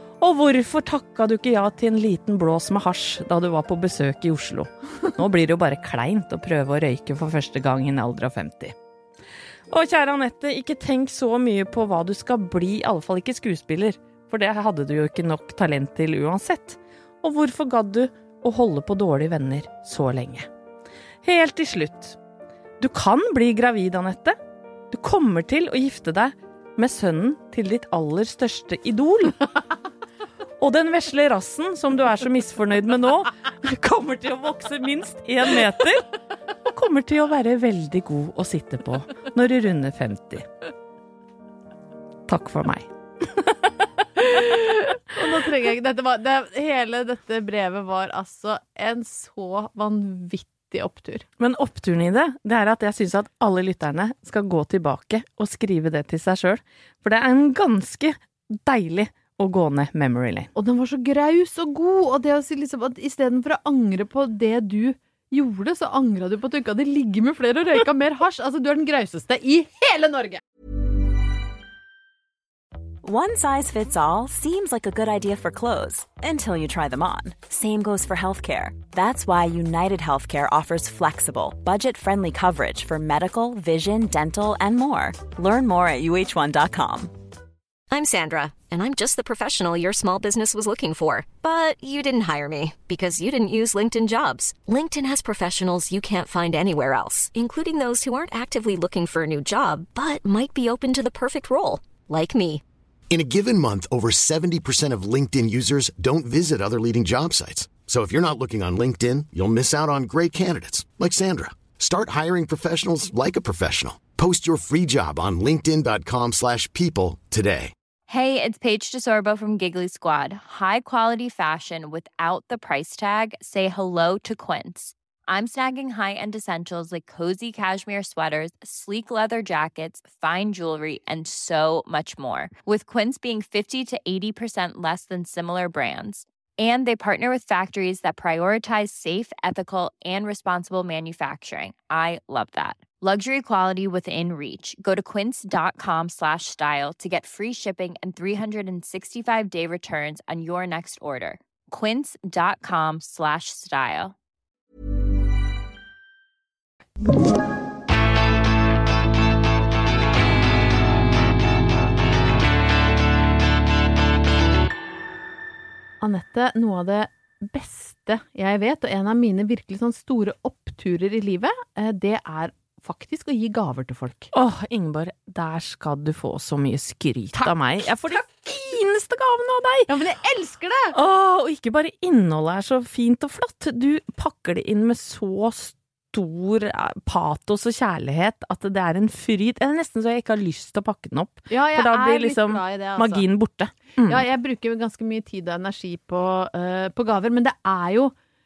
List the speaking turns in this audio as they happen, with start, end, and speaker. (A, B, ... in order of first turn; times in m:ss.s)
0:00.2-0:08.8 A
0:09.7-0:20.5 A
0:21.2-0:22.2 A
0:22.8-0:24.4 A
0:24.9-0:29.4 A
0:30.6-0:36.1 A
0:36.7-0:40.5 A
0:42.3-0:43.6 A
0:44.2-0:51.2 B
0:51.4-1:00.5 A
1:00.6-1:10.4 B
1:13.0-1:27.1 C
1:27.9-1:42.6 D
1:43.1-1:57.7 E
1:58.1-2:34.2 F
2:46.0-2:54.3 B
2:54.3-2:59.9 A
2:57.4-2:58.2 B
2:59.9-3:01.0 B
3:00.9-3:14.2 A
3:11.5-3:13.3 B
3:14.0-3:18.1 B